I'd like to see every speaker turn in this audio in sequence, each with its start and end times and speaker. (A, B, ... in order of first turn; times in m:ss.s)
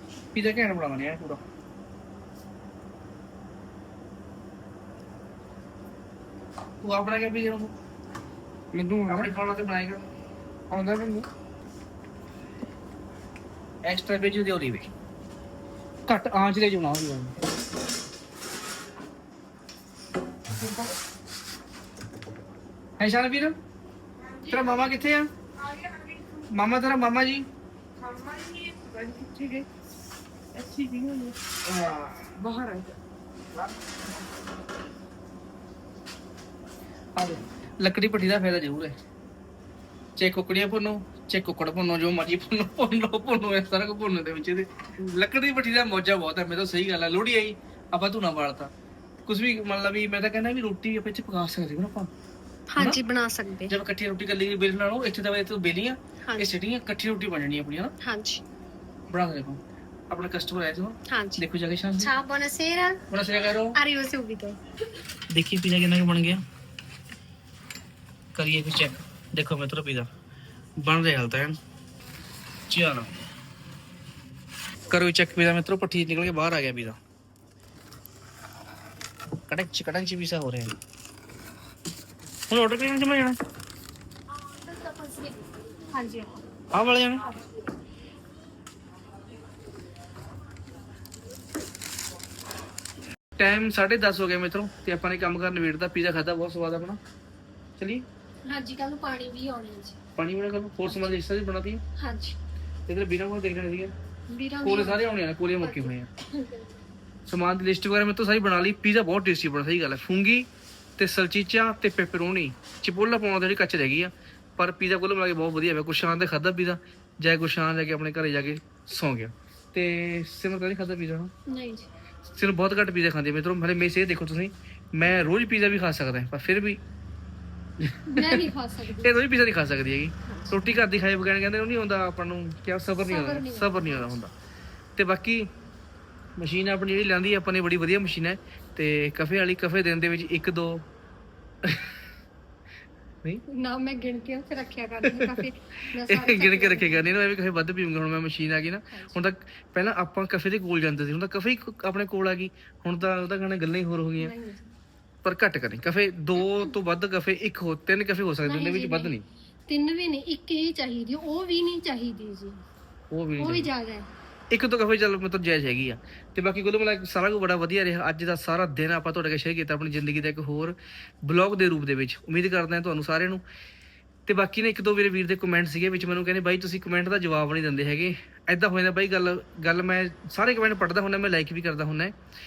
0:00.3-0:01.4 A
0:06.8-0:07.7 A
0:08.7-0:09.3 B
0:09.1-0:10.1 A
0:10.7-0:11.3 B
0:13.8-0:14.9 A
0:16.1-0:17.3 A
0:20.6-0:20.9 B
0:23.0-0:23.6 A
0:24.3-0:24.8 B
0:24.5-0:25.3 A
0:25.6-0:26.4 B
0:26.5-0:27.4 A
0:28.0-0:29.7 B
0:30.5-0:31.4 B
0:31.6-0:32.4 A
0:32.4-0:33.0 B
0:37.2-0:39.0 A
0:40.2-0:48.7 A
0:49.2-0:52.1 A
0:52.7-0:53.7 C
0:53.7-0:57.9 A
0:58.0-0:58.4 C
0:59.1-1:02.1 A
1:01.1-1:01.4 C
1:02.0-1:03.0 C
1:03.1-1:03.8 A
1:03.8-1:04.6 C
1:05.3-1:06.4 A
1:08.4-1:10.1 A
1:10.8-1:11.6 A
1:12.7-1:13.1 A
1:14.9-1:17.0 A
1:19.5-1:20.7 A
1:22.5-1:23.4 A
1:24.3-1:26.4 C
1:26.7-1:27.3 A
1:33.4-1:37.0 A
1:37.8-1:38.0 A
1:38.4-1:40.0 C
1:40.2-1:41.8 A
1:40.9-1:41.2 C
1:42.0-1:42.4 C
1:42.9-1:43.9 A
1:44.3-1:45.0 C
1:44.6-1:46.1 A
1:45.6-1:46.7 C
1:47.3-2:01.3 A
2:01.5-2:01.9 C
2:02.3-2:06.8 A
2:07.8-2:08.4 A
2:08.1-2:09.1 C
2:09.0-2:14.3 A
2:10.3-2:10.6 C
2:13.1-2:14.2 C
2:15.0-2:15.5 A
2:16.4-2:20.8 A
2:21.6-2:21.9 A
2:23.5-2:27.1 C
2:25.1-2:25.4 A
2:26.1-2:34.3 A
2:28.9-2:29.2 C
2:34.2-2:34.7 C
2:35.2-2:39.2 A
2:38.4-2:39.2 C
2:39.7-2:42.6 C
2:43.1-2:43.7 A
2:43.4-2:44.1 C
2:44.5-2:53.4 A
2:54.3-3:02.1 A